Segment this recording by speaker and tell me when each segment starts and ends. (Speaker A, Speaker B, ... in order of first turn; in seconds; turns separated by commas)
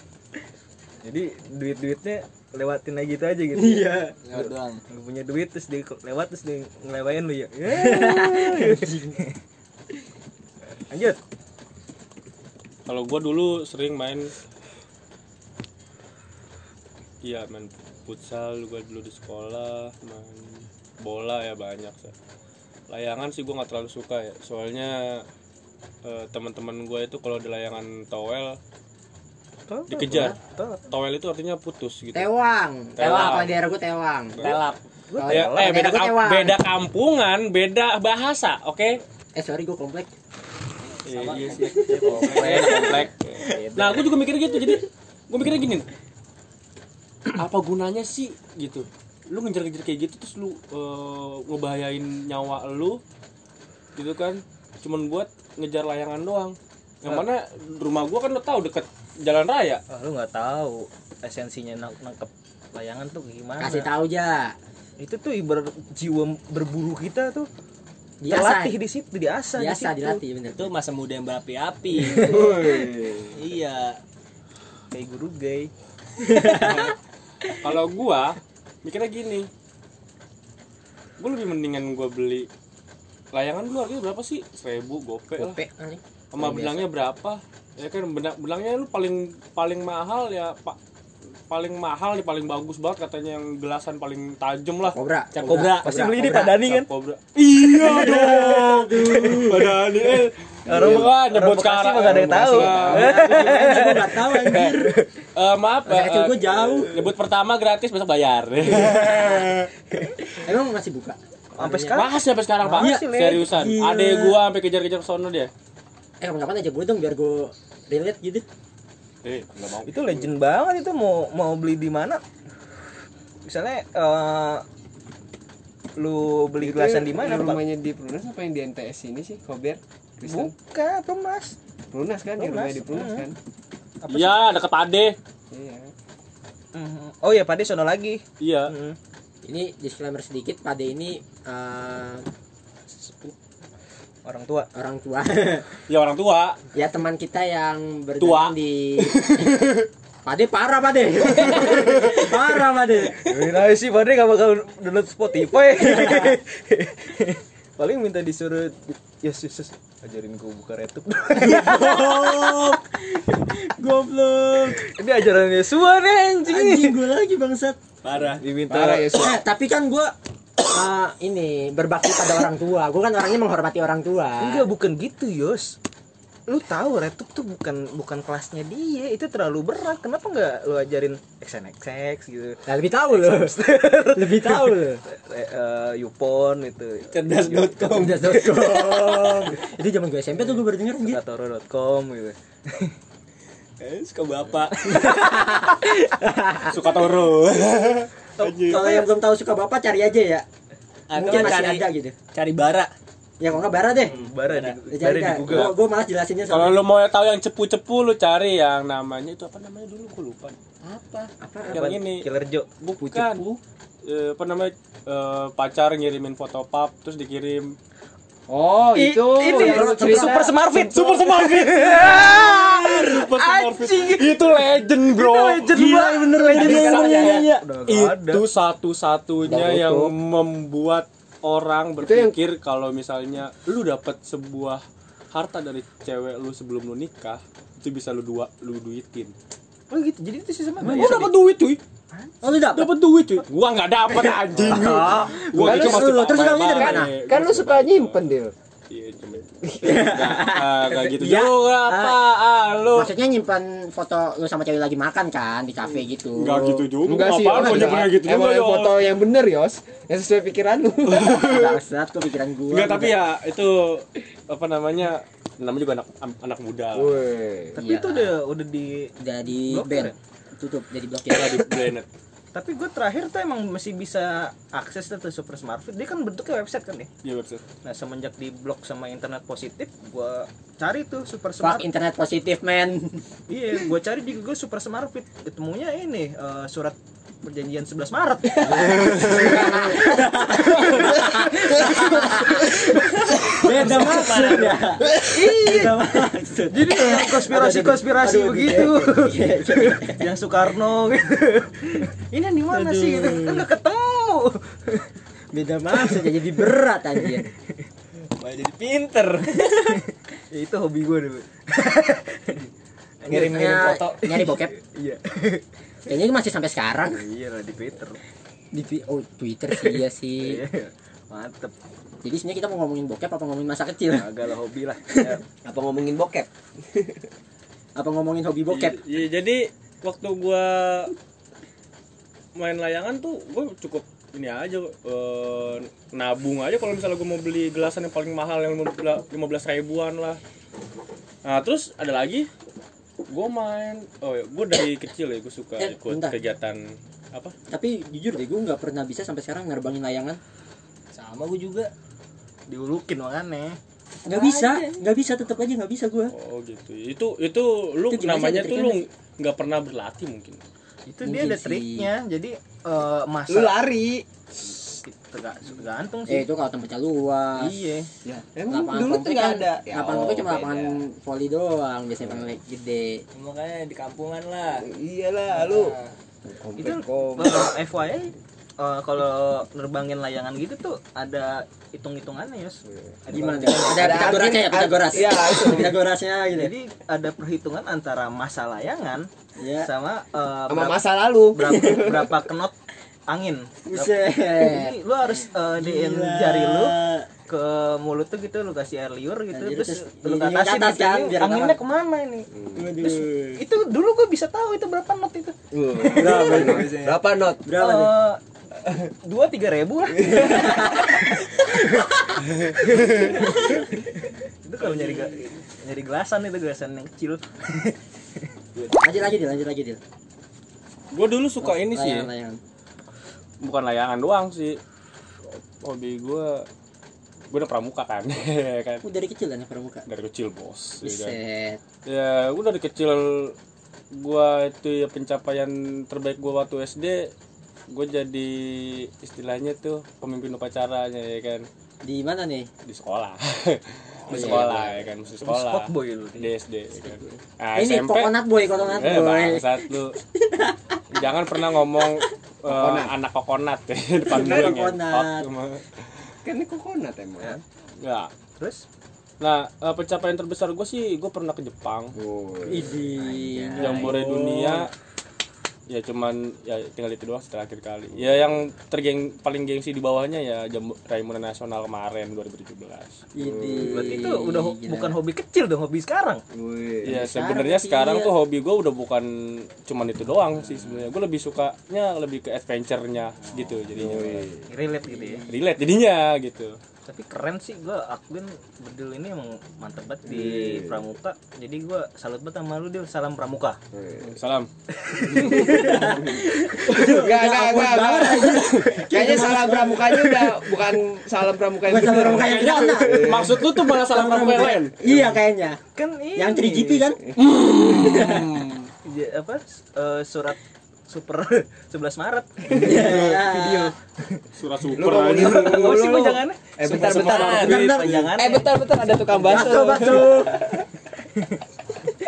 Speaker A: 1.0-9.3, Speaker B: 3.6-4.2, Speaker C: 4.2-4.8, Speaker B: 7.7-9.2, Speaker A: 10.9-11.2, Speaker D: 12.9-14.3, Speaker D: 17.2-22.1, Speaker D: 22.9-25.2, Speaker D: 26.0-28.6, Speaker A: 29.7-30.9, Speaker D: 29.9-32.3, Speaker B: 32.1-34.5, Speaker D: 33.0-33.5, Speaker C: 33.0-33.4, Speaker C: 34.4-34.8, Speaker A: 35.1-35.8, Speaker B: 35.2-36.6, Speaker D: 35.3-39.0, Speaker B: 39.4-40.1, Speaker C: 41.0-44.1, Speaker D: 41.0-45.9, Speaker B: 41.6-42.5, Speaker A: 42.1-42.9, Speaker D: 47.3-53.0, Speaker D: 54.0-59.8, Speaker A: 59.9-63.9, Speaker B: 63.6-64.5, Speaker A: 65.0-67.5, Speaker B: 68.2-68.8, Speaker A: 68.3-70.2, Speaker B: 69.6-70.7, Speaker C: 70.6-72.5, Speaker E: 72.2-73.4, Speaker C: 73.4-74.0, Speaker A: 74.9-75.7, Speaker B: 76.2-76.9, Speaker D: 76.5-76.9, Speaker D: 77.5-79.5, Speaker D: 81.2-82.5, Speaker D: 83.3-85.6, Speaker B: 85.4-86.9, Speaker D: 86.3-90.8, Speaker D: 91.5-95.0, Speaker B: 94.9-96.6, Speaker C: 95.3-96.0, Speaker A: 95.5-96.9, Speaker D: 96.3-103.5, Speaker B: 97.7-99.8, Speaker A: 100.7-105.1, Speaker E: 100.7-101.1, Speaker E: 102.0-103.1, Speaker B: 102.8-104.9, Speaker D: 105.4-109.7, Speaker B: 105.9-107.0, Speaker B: 108.7-109.5, Speaker B: 110.4-112.0, Speaker A: 111.6-113.5, Speaker D: 111.9-115.5, Speaker B: 112.7-114.4, Speaker B: 116.2-118.5, Speaker D: 119.2-120.3, Speaker A: 119.9-122.2, Speaker A: 123.5-124.7, Speaker A: 126.0-127.6, Speaker E: 126.6-130.5, Speaker A: 130.3-131.6, Speaker E: 131.9-133.3, Speaker A: 132.4-133.3, Speaker A: 134.0-134.6, Speaker D: 134.1-135.2, Speaker E: 135.5-135.9, Speaker A: 136.7-139.0, Speaker D: 138.4-138.7, Speaker B: 139.4-142.2, Speaker B: 142.9-143.3, Speaker A: 144.2-144.7, Speaker B: 144.8-145.7, Speaker D: 145.9-146.6, Speaker B: 146.8-149.7, Speaker D: 148.2-149.8, Speaker B: 150.2-153.2, Speaker D: 151.5-152.2, Speaker A: 153.2-162.8, Speaker B: 155.8-156.4, Speaker B: 161.4-164.8, Speaker A: 164.8-167.0, Speaker B: 166.5-167.8, Speaker C: 168.0-168.4, Speaker A: 168.2-169.2, Speaker E: 168.7-169.4, Speaker B: 169.2-170.1, Speaker B: 170.7-174.7, Speaker A: 174.4-175.8, Speaker A: 176.5-188.8, Speaker B: 182.7-183.6, Speaker B: 184.1-185.0, Speaker C: 187.1-189.4, Speaker B: 187.9-191.2, Speaker A: 191.0-192.9, Speaker C: 193.8-195.7, Speaker B: 194.9-197.1, Speaker D: 196.7-198.9, Speaker A: 198.4-199.1, Speaker B: 198.6-200.4, Speaker C: 201.1-202.9, Speaker B: 201.1-202.2, Speaker B: 203.4-204.1, Speaker A: 204.1-205.7, Speaker C: 204.1-204.8, Speaker B: 204.9-206.8, Speaker D: 206.5-210.6, Speaker C: 210.8-211.3, Speaker B: 211.4-211.9, Speaker D: 211.7-212.3, Speaker A: 211.7-212.7, Speaker D: 212.8-213.5, Speaker D: 214.1-217.8, Speaker E: 218.5-220.9, Speaker A: 218.9-228.4, Speaker B: 219.4-220.5, Speaker D: 220.9-226.0, Speaker B: 225.6-227.7, Speaker C: 226.5-227.4, Speaker D: 226.5-239.3, Speaker E: 229.4-230.1, Speaker E: 232.0-232.4, Speaker A: 239.9-241.4, Speaker B: 240.8-241.3, Speaker D: 240.9-241.8, Speaker B: 242.4-242.9, Speaker D: 242.7-248.2, Speaker B: 244.1-247.1, Speaker E: 245.6-246.1, Speaker E: 246.7-248.5, Speaker D: 248.9-253.1, Speaker E: 249.7-250.1, Speaker B: 249.8-252.2, Speaker B: 252.9-256.9, Speaker D: 256.4-259.1, Speaker E: 257.0-261.6, Speaker B: 257.4-258.1, Speaker D: 261.1-261.8, Speaker B: 261.4-263.2, Speaker D: 262.7-267.2, Speaker E: 266.9-267.8, Speaker A: 267.8-270.1, Speaker B: 267.8-268.3, Speaker B: 269.2-271.7, Speaker D: 271.3-272.1, Speaker A: 272.5-277.1, Speaker D: 277.2-277.6, Speaker A: 277.8-281.9, Speaker B: 281.6-283.2, Speaker A: 283.5-289.1, Speaker E: 288.6-289.8, Speaker B: 288.6-300.3, Speaker E: 291.3-293.5, Speaker C: 293.5-294.8, Speaker A: 295.2-296.0, Speaker A: 296.7-305.1, Speaker B: 302.7-303.7, Speaker B: 305.5-307.5, Speaker C: 308.4-310.0, Speaker A: 310.5-312.7, Speaker A: 313.2-315.6, Speaker C: 313.3-314.6, Speaker B: 313.3-314.7, Speaker B: 316.1-317.2, Speaker A: 317.1-318.2, Speaker B: 318.7-320.6, Speaker A: 319.8-321.7, Speaker B: 322.2-324.3, Speaker A: 324.1-325.4, Speaker B: 325.1-325.4, Speaker E: 325.6-327.3, Speaker B: 328.0-329.0, Speaker D: 328.7-331.1, Speaker D: 332.6-340.4, Speaker D: 341.4-342.5, Speaker D: 343.3-346.8, Speaker B: 345.8-346.4, Speaker B: 347.7-350.4, Speaker C: 351.1-351.9, Speaker A: 352.7-353.8, Speaker C: 354.2-355.0, Speaker B: 354.2-356.3, Speaker D: 356.3-360.6, Speaker B: 358.1-359.1, Speaker A: 361.1-363.9, Speaker B: 361.2-362.1, Speaker E: 363.5-364.2, Speaker A: 364.5-366.5, Speaker B: 366.3-367.8, Speaker A: 367.6-368.1, Speaker E: 368.2-370.7, Speaker B: 368.7-373.2, Speaker A: 369.0-370.9, Speaker C: 373.3-374.9, Speaker E: 374.8-377.8, Speaker C: 375.5-376.1, Speaker A: 376.8-384.4, Speaker E: 382.9-383.2, Speaker B: 383.3-386.7, Speaker E: 383.8-386.0, Speaker A: 386.5-389.3, Speaker B: 389.6-389.9, Speaker A: 389.8-392.8, Speaker E: 390.7-392.4, Speaker B: 391.7-392.0, Speaker A: 393.3-396.9, Speaker B: 393.9-397.3, Speaker A: 397.5-402.5, Speaker B: 399.5-401.8, Speaker E: 402.5-402.9, Speaker B: 402.8-403.6, Speaker A: 403.0-405.6, Speaker E: 405.7-407.7, Speaker C: 406.1-407.2, Speaker B: 406.1-407.0, Speaker B: 407.6-408.1, Speaker A: 407.7-410.8, Speaker E: 410.2-410.5, Speaker B: 410.3-412.5, Speaker A: 413.1-413.7, Speaker B: 413.2-413.8, Speaker A: 414.6-418.5, Speaker C: 418.8-419.1, Speaker B: 419.0-420.0, Speaker D: 421.1-422.3, Speaker B: 421.6-422.6, Speaker D: 423.6-424.8, Speaker D: 425.8-426.6, Speaker D: 427.5-429.0, Speaker B: 429.0-430.0, Speaker D: 430.1-431.4, Speaker B: 431.0-431.8, Speaker D: 432.1-433.6, Speaker D: 434.1-437.3, Speaker D: 437.9-441.6, Speaker B: 442.0-442.7, Speaker D: 442.9-450.2, Speaker B: 444.3-445.0, Speaker A: 444.3-444.8, Speaker A: 445.4-446.5, Speaker B: 447.1-450.8, Speaker D: 451.1-455.9, Speaker E: 452.6-453.2, Speaker B: 454.2-455.5, Speaker E: 454.3-454.8, Speaker E: 456.4-457.6, Speaker D: 458.0-458.3, Speaker D: 459.4-462.1, Speaker E: 462.1-463.4, Speaker B: 462.7-464.9, Speaker D: 463.6-464.9, Speaker D: 465.9-473.2, Speaker E: 468.1-468.5, Speaker B: 473.4-475.1, Speaker E: 473.4-474.2, Speaker A: 473.9-476.4, Speaker E: 476.5-477.2, Speaker D: 477.0-479.3, Speaker B: 477.1-478.3, Speaker D: 479.8-484.5, Speaker E: 483.9-484.7, Speaker A: 484.7-485.4, Speaker D: 485.5-486.8, Speaker A: 487.1-493.8, Speaker E: 490.3-491.0, Speaker E: 493.9-494.3, Speaker D: 494.2-494.7, Speaker A: 495.0-495.7, Speaker E: 495.3-503.6, Speaker B: 495.4-500.7, Speaker B: 501.9-505.8, Speaker D: 502.1-505.0, Speaker E: 505.0-505.3, Speaker A: 505.9-507.2, Speaker B: 506.4-508.7, Speaker D: 507.4-508.9, Speaker A: 509.1-513.0, Speaker E: 512.7-513.9, Speaker B: 512.7-513.9, Speaker D: 514.6-516.0, Speaker E: 514.9-517.7, Speaker A: 515.0-518.7, Speaker D: 516.8-518.1, Speaker C: 516.9-518.3, Speaker B: 517.9-518.2, Speaker E: 518.3-520.9, Speaker B: 519.3-520.6